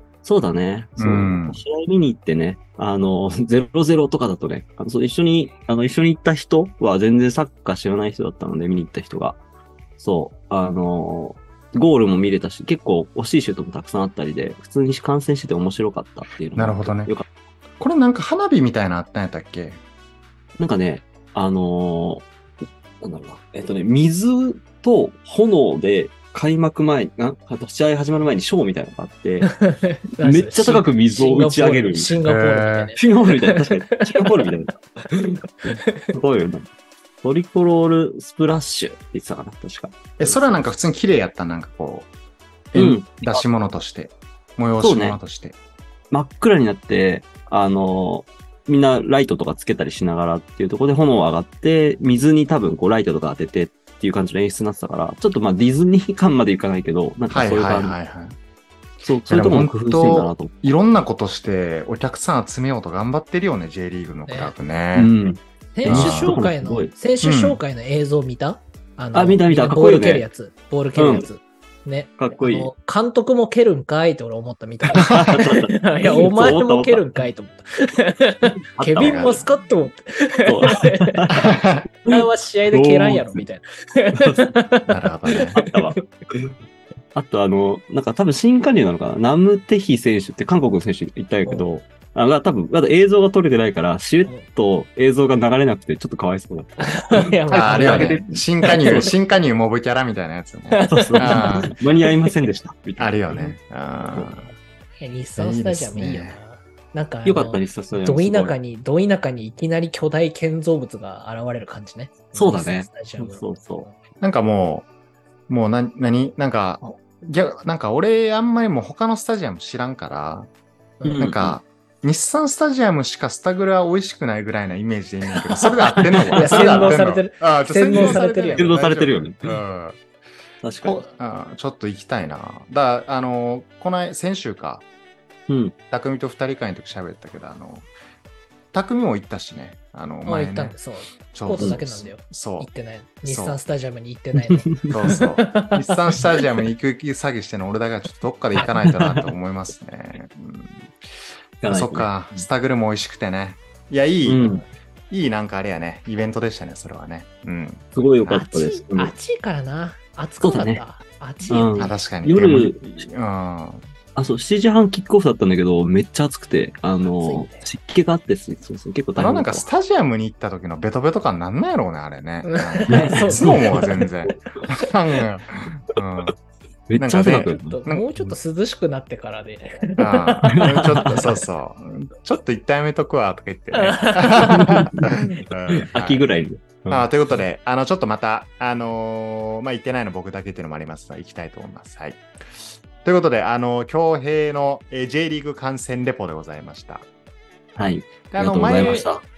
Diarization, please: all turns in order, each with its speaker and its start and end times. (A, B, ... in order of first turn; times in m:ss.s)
0:00.2-0:09.4 A
0:01.0-0:01.6 B
0:10.0-0:17.2 A
0:16.6-0:17.1 B
0:17.8-0:19.8 B
0:20.6-0:22.2 A
0:23.0-0:29.5 A
0:29.4-0:34.5 C
0:30.2-0:32.2 A
0:32.2-0:32.9 B
0:33.0-0:36.7 A
0:35.9-0:36.1 C
0:37.2-0:40.4 A
0:40.2-0:42.1 B
0:42.7-0:45.5 B
0:42.8-0:43.4 A
0:44.8-0:45.2 A
0:46.1-0:57.9 A
0:57.3-0:58.4 B
0:59.0-1:00.6 A
0:59.3-1:05.1 B
1:04.3-1:04.5 C
1:04.9-1:06.9 A
1:05.8-1:21.3 C
1:05.8-1:06.4 B
1:07.2-1:07.6 B
1:09.1-1:10.2 A
1:11.0-1:11.3 A
1:12.2-1:12.7 A
1:14.9-1:17.1 A
1:18.8-1:19.4 A
1:19.0-1:19.4 B
1:20.5-1:21.5 A
1:21.3-1:21.8 B
1:22.0-1:26.0 C
1:22.1-1:23.4 A
1:24.1-1:24.5 A
1:24.9-1:25.6 B
1:25.4-1:26.5 A
1:27.1-1:39.0 A
1:36.8-1:39.1 C
1:37.5-1:41.7 B
1:40.7-1:42.3 C
1:40.9-1:43.5 A
1:43.0-1:44.5 B
1:44.4-1:53.9 C
1:45.4-1:46.4 B
1:47.2-1:48.5 A
1:52.3-1:53.9 A
1:54.2-1:54.8 B
1:55.5-2:00.5 B
2:01.0-2:01.6 A
2:01.2-2:10.0 B
2:05.4-2:07.0 A
2:06.3-2:08.8 C
2:07.9-2:09.5 A
2:10.6-2:11.0 A
2:10.8-2:14.8 B
2:15.5-2:15.8 A
2:15.9-2:17.9 B
2:18.7-2:20.8 B
2:20.2-2:26.0 C
2:21.3-2:22.7 B
2:23.2-2:23.6 B
2:24.4-2:25.1 A
2:24.9-2:30.9 B
2:28.8-2:29.3 A
2:31.6-2:32.4 A
2:31.7-2:34.5 B
2:34.2-2:34.6 A
2:35.1-2:38.5 B
2:37.9-2:39.1 A
2:38.5-2:41.9 C
2:40.4-2:40.8 A
2:41.5-2:43.0 A
2:41.8-2:43.9 B
2:44.2-2:49.6 A
2:47.1-2:47.7 C
2:49.2-2:56.3 B
2:52.4-2:53.9 C
2:52.9-2:54.4 A
2:56.9-2:58.3 A
2:57.0-2:58.1 B
2:57.2-3:01.2 C
3:00.0-3:06.2 B
3:00.5-3:01.4 A
3:03.7-3:04.9 C
3:04.4-3:05.1 A
3:05.7-3:07.1 A
3:06.9-3:17.1 B
3:17.8-3:19.2 A
3:18.2-3:19.1 B